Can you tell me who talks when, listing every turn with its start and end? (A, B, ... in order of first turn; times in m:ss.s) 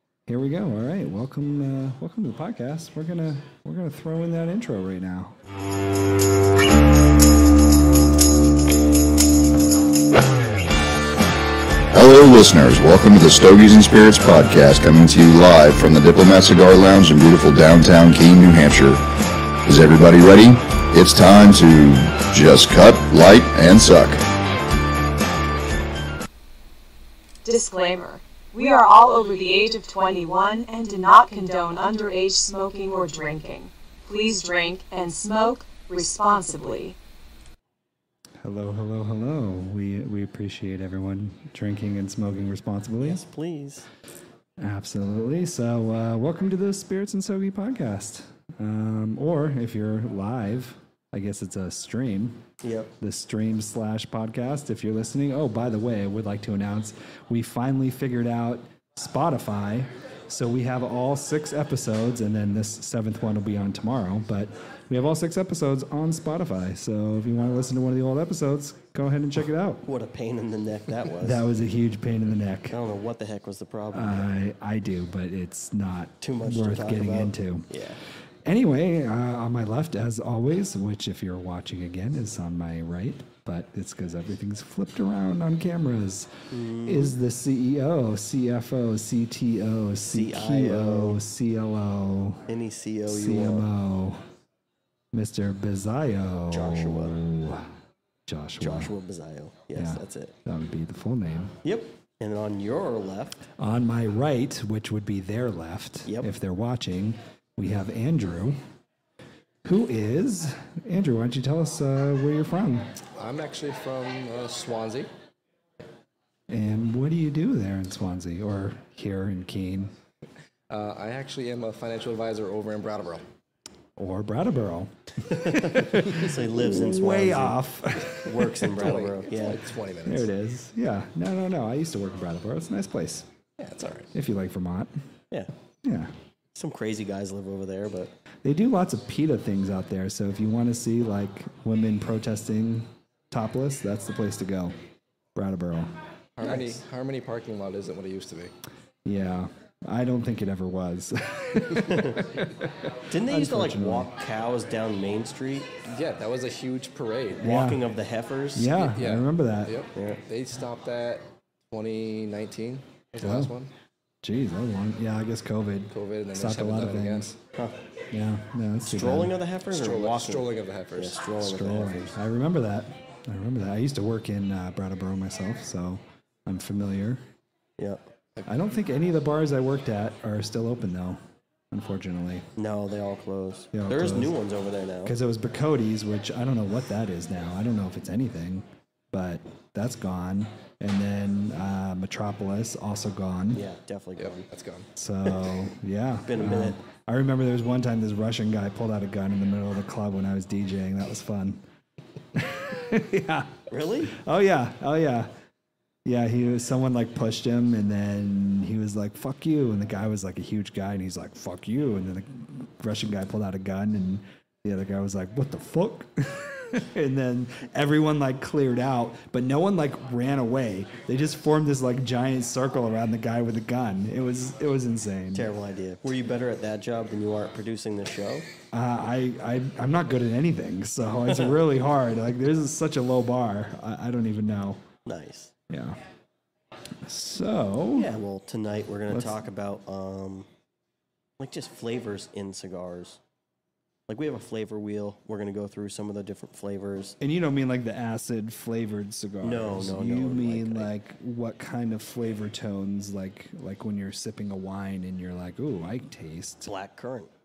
0:00.3-0:05.4 A
0:11.9-0:19.0 B
0:19.7-0:24.2 B
0:27.4-0:37.0 C
0:38.4-0:43.2 A
0:43.0-0:43.9 D
0:44.6-0:52.5 A
0:52.6-0:53.0 D
0:53.0-1:09.8 A
1:09.8-1:11.4 D
1:11.2-1:12.8 A
1:12.7-1:14.4 D
1:13.9-1:17.7 A
1:16.2-1:18.0 D
1:18.4-1:26.3 A
1:26.5-1:27.2 D
1:26.8-1:32.5 A
1:30.1-1:31.2 D
1:32.5-1:33.7 D
1:33.1-1:34.2 A
1:35.1-1:37.7 A
1:36.5-1:37.2 D
1:38.3-1:38.9 A
1:38.6-1:40.4 D
1:39.8-1:41.6 A
1:41.6-1:43.5 D
1:43.6-1:48.6 A
1:46.0-1:46.3 D
1:49.6-1:52.9 A
1:53.2-1:55.1 E
1:56.5-1:59.9 A
2:00.7-2:03.2 E
2:04.0-2:08.8 A
2:05.3-2:07.7 D
2:08.2-2:09.6 D
2:08.7-2:10.3 E
2:10.0-2:13.3 A
2:13.6-2:14.1 E
2:14.1-2:14.9 A
2:15.8-2:16.1 A
2:16.6-2:18.2 D
2:18.4-2:24.8 A
2:25.4-2:25.9 A
2:26.4-2:28.5 E
2:29.0-2:34.1 A
2:31.8-2:32.2 D
2:33.1-2:35.7 D
2:35.8-2:37.5 E
2:37.4-2:37.9 A
2:37.4-2:38.7 D
2:38.6-2:39.8 A
2:38.8-2:43.7 E
2:39.9-2:40.2 D
2:43.2-2:43.5 A
2:44.2-2:47.4 A
2:45.9-2:47.3 E
2:48.1-2:49.4 A
2:48.8-2:52.2 D
2:49.7-2:51.2 E
2:51.4-2:57.2 A
2:58.5-3:01.2 A
3:01.7-3:02.5 A
3:02.6-3:05.2 D
3:03.7-3:04.4 A
3:05.0-3:13.7 A
3:13.5-3:14.5 D
3:14.2-3:14.9 E
3:15.0-3:21.6 A
3:16.2-3:16.8 D
3:22.3-3:25.3 A
3:23.7-3:24.2 D
3:26.0-3:45.5 A
3:45.3-3:48.5 D
3:48.7-3:54.8 A
3:55.1-3:55.5 D
3:55.7-3:56.0 A
3:57.0-3:58.2 A
3:57.9-4:00.5 D
3:59.1-3:59.4 A
4:01.4-4:03.2 D
4:04.1-4:07.2 D
4:07.2-4:16.7 A
4:09.4-4:10.9 D
4:16.6-4:17.3 D